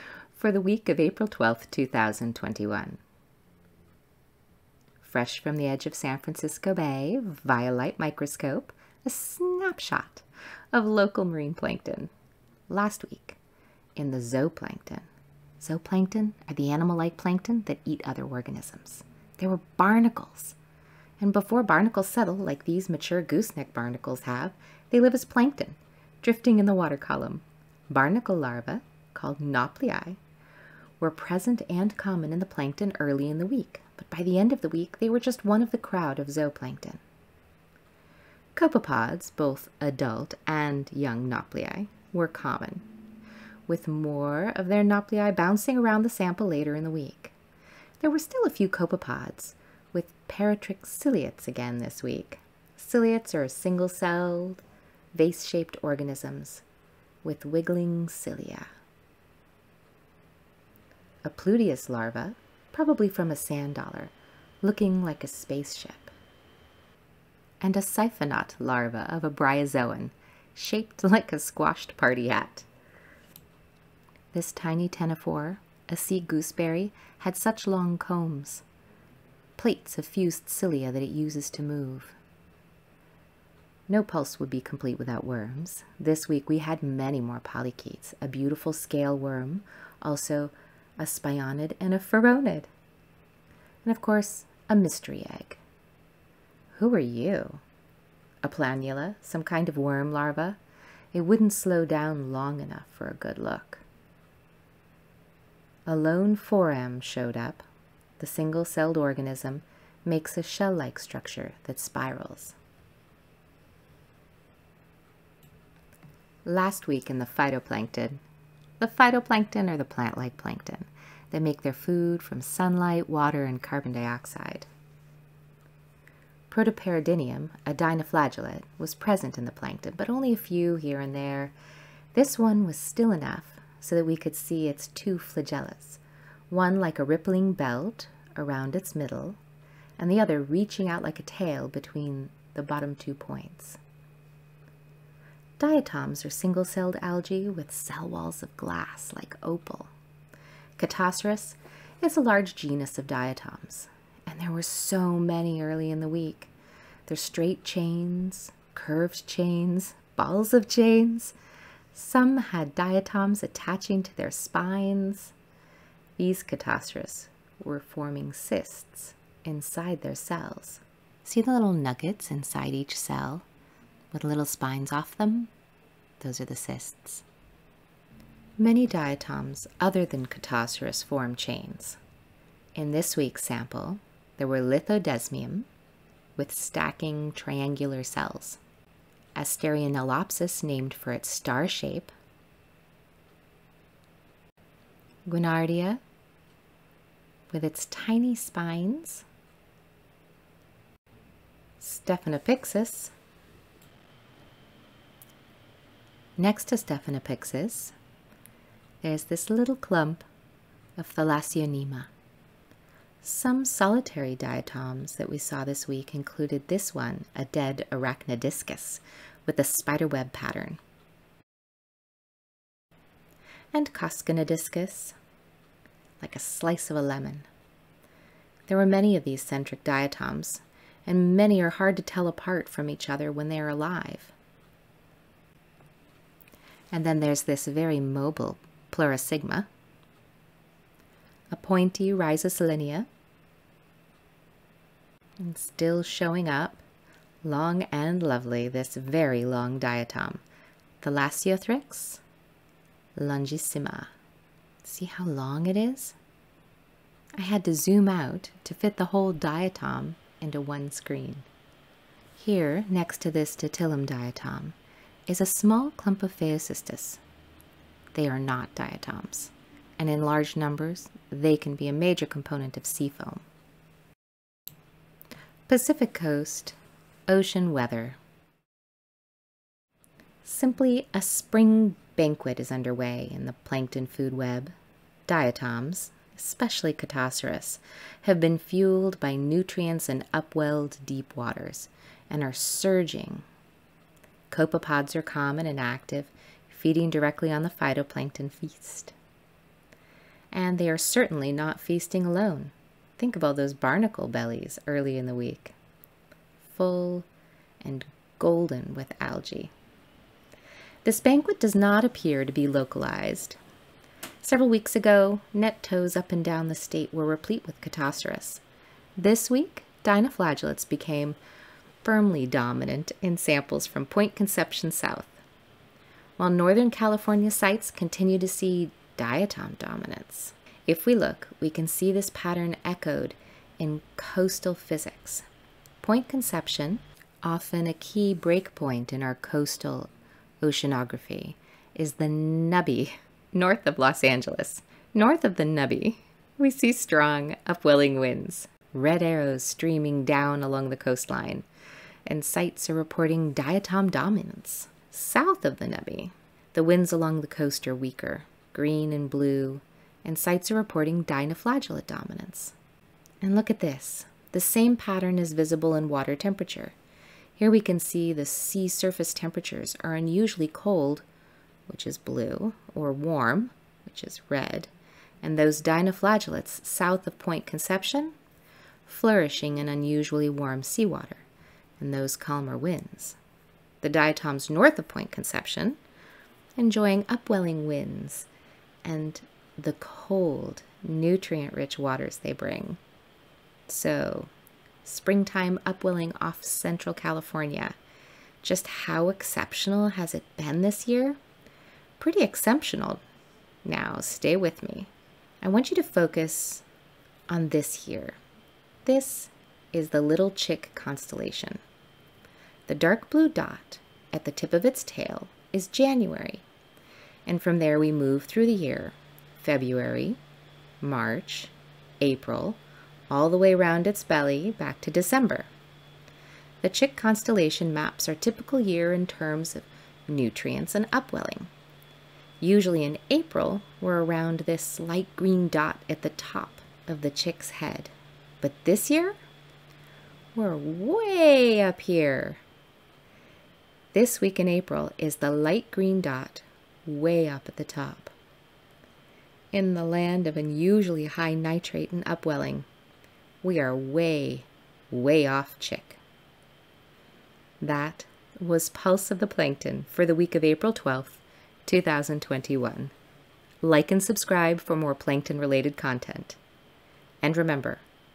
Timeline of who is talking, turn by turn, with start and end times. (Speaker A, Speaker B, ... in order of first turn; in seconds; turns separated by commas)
Speaker A: 0.3-3.0, Speaker A: 5.0-12.1, Speaker A: 12.7-13.4, Speaker A: 14.0-15.1, Speaker A: 15.6-20.6, Speaker A: 21.2-30.2, Speaker A: 31.0-37.0, Speaker A: 38.5-42.9, Speaker A: 43.7-47.3, Speaker A: 48.0-54.6, Speaker A: 55.1-56.6, Speaker A: 57.2-58.7, Speaker A: 61.2-66.1, Speaker A: 67.6-72.7, Speaker A: 74.3-78.7, Speaker A: 79.6-82.2, Speaker A: 83.9-92.7, Speaker A: 93.8-95.6, Speaker A: 96.7-97.6, Speaker A: 98.4-100.6, Speaker A: 101.1-103.8, Speaker A: 105.9-107.6, Speaker A: 108.2-112.6, Speaker A: 116.5-118.2, Speaker A: 118.8-124.7, Speaker A: 126.5-131.5, Speaker A: 132.1-139.4, Speaker A: 140.0-143.8, Speaker A: 145.6-149.9, Speaker A: 150.8-156.5, Speaker A: 157.1-161.3, Speaker A: 161.9-165.3, Speaker A: 166.2-173.5, Speaker A: 174.1-175.5, Speaker A: 176.2-177.2, Speaker A: 178.6-182.0, Speaker A: 182.8-185.7, Speaker A: 186.4-188.6, Speaker A: 189.3-192.1, Speaker A: 195.3-196.0, Speaker A: 197.5-199.2, Speaker A: 201.8-203.1, Speaker A: 206.4-207.9, Speaker A: 209.0-210.2, Speaker A: 211.0-212.1, Speaker A: 213.2-220.8, Speaker A: 223.7-225.2, Speaker A: 226.2-227.5, Speaker A: 228.7-234.3, Speaker A: 236.9-239.7, Speaker A: 241.5-243.1, Speaker A: 245.4-246.8, Speaker A: 247.4-250.4, Speaker A: 251.0-252.2, Speaker A: 253.2-254.1, Speaker A: 254.8-256.2, Speaker A: 257.4-261.5, Speaker A: 262.4-264.8, Speaker A: 265.3-267.2, Speaker A: 268.1-273.4, Speaker A: 275.7-276.8, Speaker A: 277.3-278.2, Speaker A: 280.4-284.8, Speaker A: 285.3-293.4, Speaker A: 294.5-299.1, Speaker A: 300.5-305.8, Speaker A: 306.6-307.3, Speaker A: 307.8-309.7, Speaker A: 311.1-313.6, Speaker A: 314.4-318.6, Speaker A: 319.2-321.4, Speaker A: 322.0-325.4, Speaker A: 326.4-335.4, Speaker A: 336.0-340.1, Speaker A: 340.6-351.7, Speaker A: 352.3-362.8, Speaker A: 363.4-366.9, Speaker A: 367.6-371.2, Speaker A: 371.9-374.9, Speaker A: 375.4-378.4, Speaker A: 379.1-381.4, Speaker A: 382.0-383.4, Speaker A: 384.0-386.0, Speaker A: 386.8-388.5, Speaker A: 389.0-393.0, Speaker A: 393.9-394.5, Speaker A: 395.0-398.0, Speaker A: 398.6-401.4, Speaker A: 402.2-403.2, Speaker A: 403.9-405.1, Speaker A: 405.6-406.8, Speaker A: 407.5-408.4, Speaker A: 409.1-411.8, Speaker A: 412.9-416.7, Speaker A: 417.5-420.4, Speaker A: 421.0-422.8, Speaker A: 423.3-425.7, Speaker A: 426.8-431.7, Speaker A: 432.6-439.4, Speaker A: 440.6-442.6, Speaker A: 444.1-448.3, Speaker A: 449.7-452.9, Speaker A: 453.6-456.2, Speaker A: 457.8-463.1, Speaker A: 463.8-466.6, Speaker A: 467.4-468.1